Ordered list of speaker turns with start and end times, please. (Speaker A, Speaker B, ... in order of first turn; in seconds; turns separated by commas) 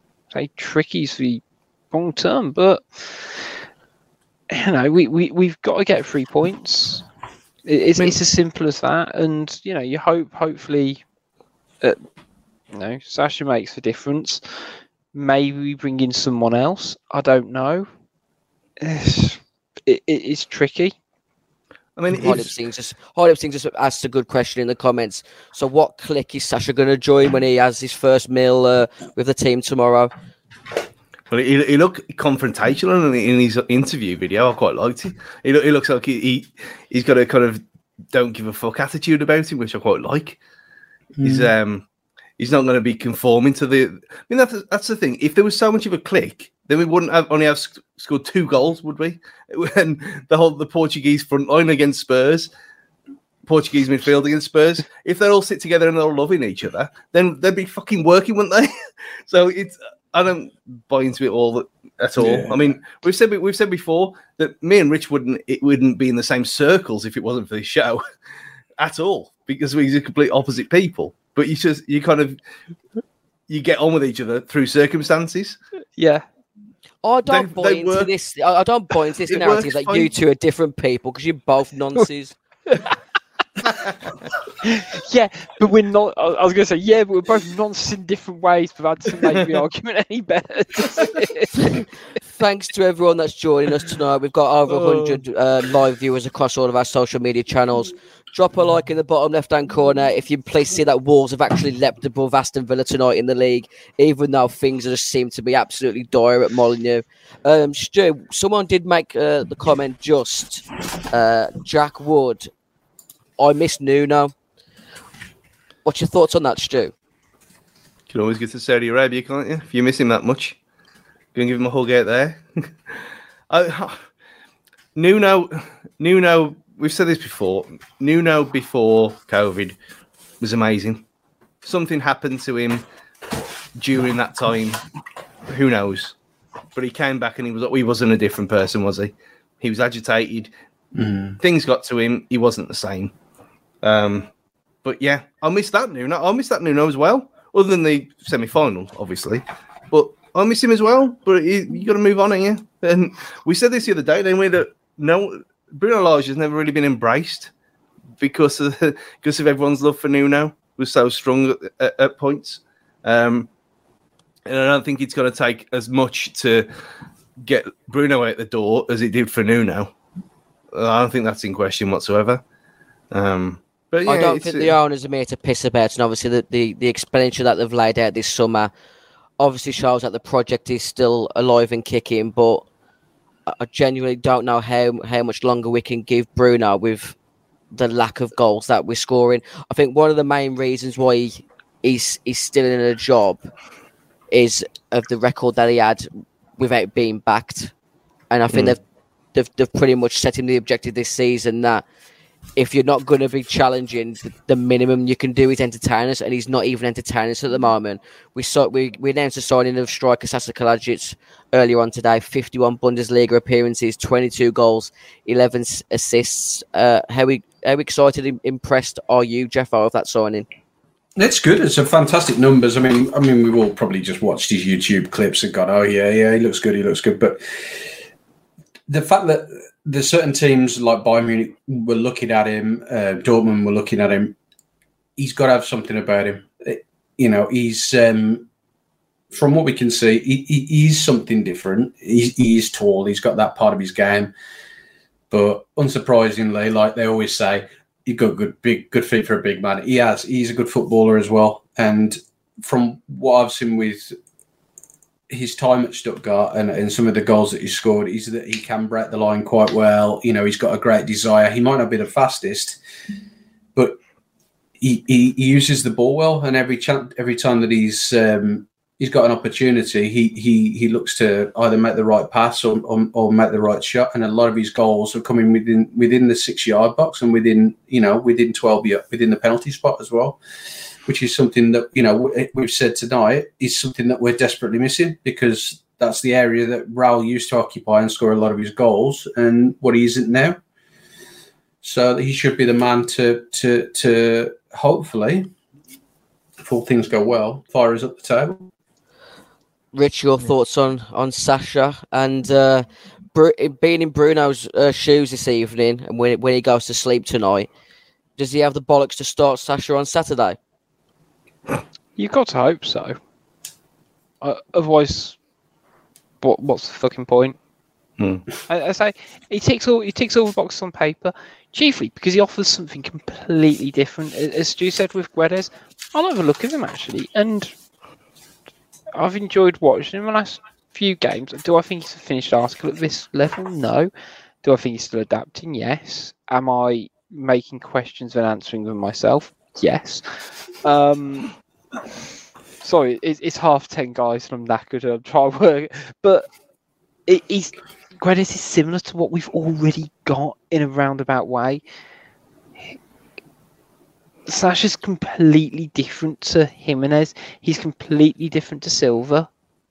Speaker A: 0.3-3.5, Speaker A: 4.5-7.0, Speaker A: 7.7-11.0, Speaker A: 12.7-17.9, Speaker A: 18.8-21.0, Speaker B: 22.0-22.6, Speaker C: 22.1-30.1, Speaker B: 31.3-37.6, Speaker B: 38.1-40.4, Speaker D: 41.2-41.5, Speaker B: 41.2-41.8, Speaker B: 42.4-52.5, Speaker B: 53.5-58.7, Speaker B: 59.3-68.0, Speaker D: 62.2-62.7, Speaker B: 68.8-72.4, Speaker B: 73.5-75.6, Speaker A: 76.0-76.3, Speaker C: 77.0-82.4, Speaker B: 77.3-78.1, Speaker B: 79.3-80.1, Speaker A: 84.6-91.8, Speaker C: 91.6-112.5, Speaker C: 113.4-114.3, Speaker C: 115.8-116.9, Speaker B: 118.1-120.6, Speaker B: 121.3-122.9, Speaker B: 123.5-124.0, Speaker B: 125.0-129.8, Speaker B: 130.4-131.0, Speaker B: 131.6-132.8, Speaker B: 133.8-134.8, Speaker B: 135.5-136.2, Speaker B: 136.8-140.5, Speaker D: 140.9-141.4, Speaker B: 141.4-143.1, Speaker B: 143.8-144.3, Speaker B: 144.8-157.5, Speaker B: 158.2-163.5, Speaker B: 164.5-166.7, Speaker B: 167.4-169.9, Speaker B: 170.7-172.4, Speaker B: 173.1-174.8, Speaker C: 174.1-178.7, Speaker C: 179.4-182.7, Speaker C: 183.5-187.2, Speaker C: 187.7-193.5, Speaker C: 194.3-197.7, Speaker C: 198.3-198.8, Speaker B: 198.5-198.8, Speaker C: 199.3-201.8, Speaker C: 202.6-220.5, Speaker D: 221.2-227.9, Speaker D: 228.9-234.3, Speaker D: 235.2-238.5, Speaker D: 239.3-244.3, Speaker D: 245.3-254.2, Speaker D: 255.3-262.8, Speaker D: 264.8-280.4, Speaker D: 281.1-290.6, Speaker D: 291.8-295.5, Speaker D: 296.6-298.7, Speaker C: 299.9-307.7, Speaker C: 308.4-310.6, Speaker A: 312.2-313.2, Speaker A: 314.4-315.4, Speaker A: 316.4-317.6, Speaker B: 318.2-318.4, Speaker A: 318.7-327.7, Speaker A: 329.2-334.1, Speaker A: 334.6-340.2, Speaker A: 340.8-341.5, Speaker A: 342.8-346.5, Speaker A: 347.3-351.8, Speaker A: 354.5-359.5